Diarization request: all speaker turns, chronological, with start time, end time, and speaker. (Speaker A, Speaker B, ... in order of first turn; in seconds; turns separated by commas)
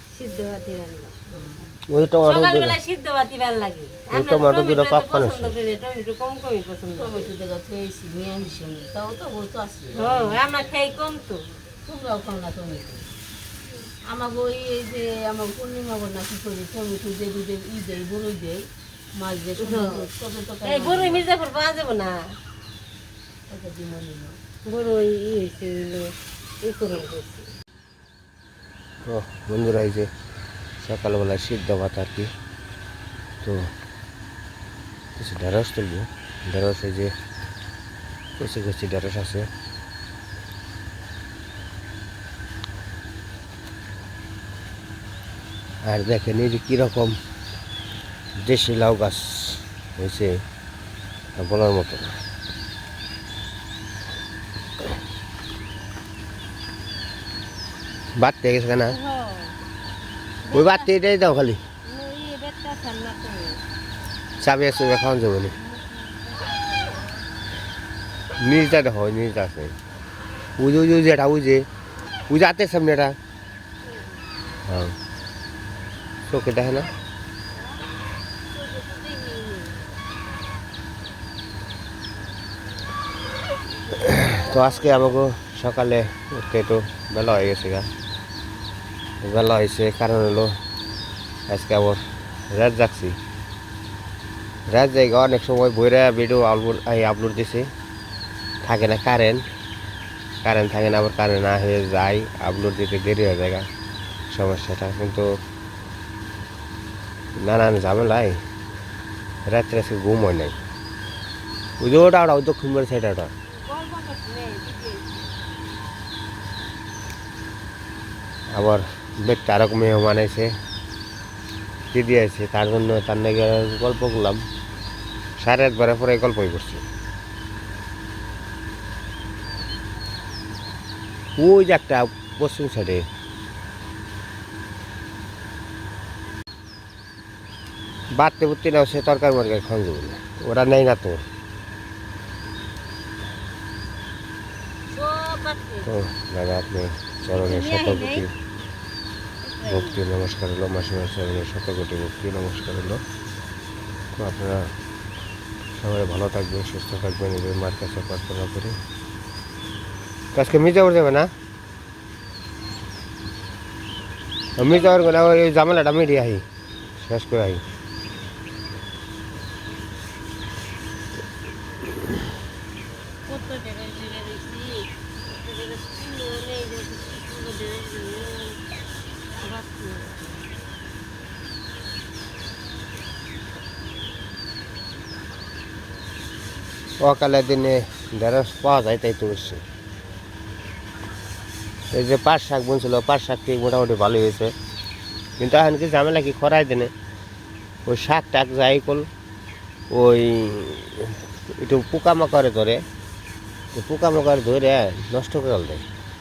Speaker A: 0.1-1.1, Speaker B: 1.3-1.6, Speaker C: 1.9-2.8, Speaker A: 2.2-7.3, Speaker C: 4.1-5.5, Speaker B: 7.0-10.4, Speaker A: 9.9-11.4, Speaker B: 11.8-13.0, Speaker B: 14.1-18.6, Speaker B: 19.2-21.2, Speaker A: 19.6-20.1, Speaker A: 20.6-22.2, Speaker B: 23.5-24.4, Speaker A: 24.7-26.1, Speaker A: 26.6-27.5, Speaker C: 29.1-30.1, Speaker C: 30.8-32.3, Speaker C: 35.2-37.1, Speaker C: 38.4-39.5, Speaker C: 45.8-47.2, Speaker C: 48.4-50.4, Speaker C: 51.4-52.1, Speaker C: 58.2-59.0, Speaker A: 58.9-59.6, Speaker A: 60.5-61.0, Speaker C: 60.5-61.6, Speaker A: 61.9-63.6, Speaker C: 64.4-65.5, Speaker A: 65.6-67.0, Speaker C: 68.4-69.7, Speaker C: 70.6-71.7, Speaker C: 72.3-73.2, Speaker C: 74.7-74.9, Speaker C: 76.3-76.9, Speaker B: 78.8-79.5, Speaker C: 84.0-87.9, Speaker C: 89.2-90.5, Speaker C: 91.5-93.2, Speaker C: 94.7-97.7, Speaker C: 98.6-99.4, Speaker C: 100.4-103.7, Speaker C: 104.3-105.3, Speaker C: 107.4-108.4, Speaker C: 109.5-110.6, Speaker C: 111.8-113.3, Speaker A: 113.5-115.1, Speaker C: 118.5-120.5, Speaker C: 121.9-124.4, Speaker C: 125.4-126.8, Speaker C: 131.4-133.0, Speaker C: 138.1-141.2, Speaker A: 144.9-145.9, Speaker C: 145.9-148.3, Speaker A: 147.4-148.2, Speaker A: 149.4-150.0, Speaker C: 149.7-153.0, Speaker C: 154.2-154.7, Speaker C: 155.8-158.8, Speaker C: 160.3-161.3, Speaker C: 164.6-166.4, Speaker A: 164.6-165.1, Speaker C: 167.0-167.6, Speaker A: 173.3-178.6, Speaker A: 179.4-180.3, Speaker C: 187.0-189.6, Speaker C: 191.9-194.5, Speaker C: 195.4-196.9, Speaker C: 197.9-199.1, Speaker C: 199.9-202.8, Speaker C: 203.8-205.8